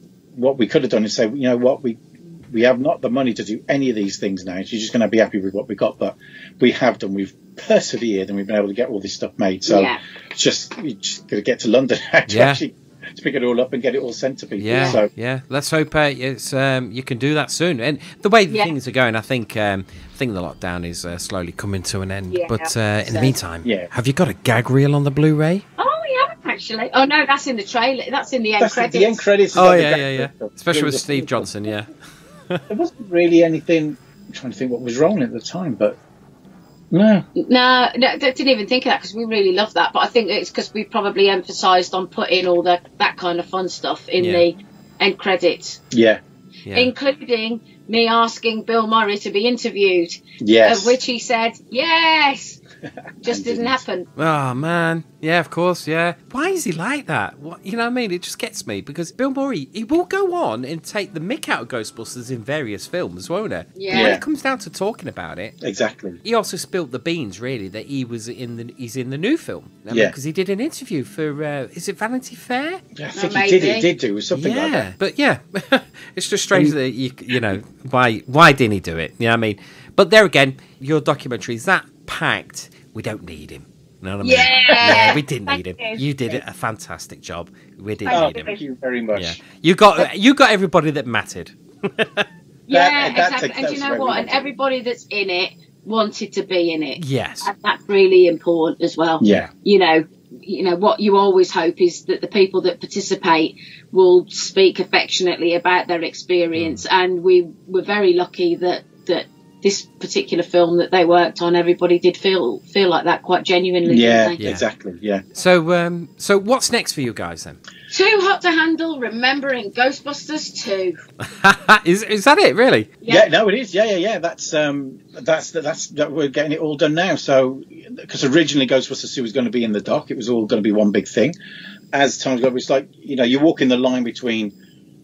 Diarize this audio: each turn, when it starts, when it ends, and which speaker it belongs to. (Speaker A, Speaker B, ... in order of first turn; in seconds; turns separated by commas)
Speaker A: 0.3-15.1, Speaker B: 9.7-10.0, Speaker C: 12.3-12.6, Speaker C: 14.6-25.6, Speaker B: 14.7-15.0, Speaker B: 22.3-23.4, Speaker A: 23.6-23.9, Speaker B: 25.8-29.2, Speaker A: 28.6-31.5, Speaker C: 29.5-31.9, Speaker A: 32.7-36.0, Speaker A: 36.9-37.2, Speaker B: 37.4-45.8, Speaker C: 44.2-44.4, Speaker A: 45.9-46.2, Speaker C: 46.6-46.9, Speaker B: 46.7-52.6, Speaker A: 50.4-51.0, Speaker A: 53.2-53.8, Speaker B: 53.2-54.0, Speaker C: 54.2-65.5, Speaker B: 63.8-64.2, Speaker A: 63.9-64.2, Speaker A: 65.6-66.2, Speaker C: 66.2-72.8, Speaker A: 69.9-70.1, Speaker A: 73.0-74.9, Speaker B: 73.1-73.9, Speaker C: 74.3-88.5, Speaker B: 84.2-86.0, Speaker A: 84.7-85.2, Speaker B: 88.0-88.6, Speaker A: 88.1-89.4, Speaker C: 89.1-92.3, Speaker B: 92.7-114.4, Speaker A: 92.7-94.5, Speaker C: 97.0-97.5, Speaker A: 99.2-99.5, Speaker C: 106.5-106.8, Speaker A: 113.8-115.2, Speaker C: 115.3-117.6, Speaker B: 117.9-121.0, Speaker C: 121.2-122.9, Speaker B: 123.0-123.3, Speaker A: 123.1-131.3, Speaker A: 131.9-134.5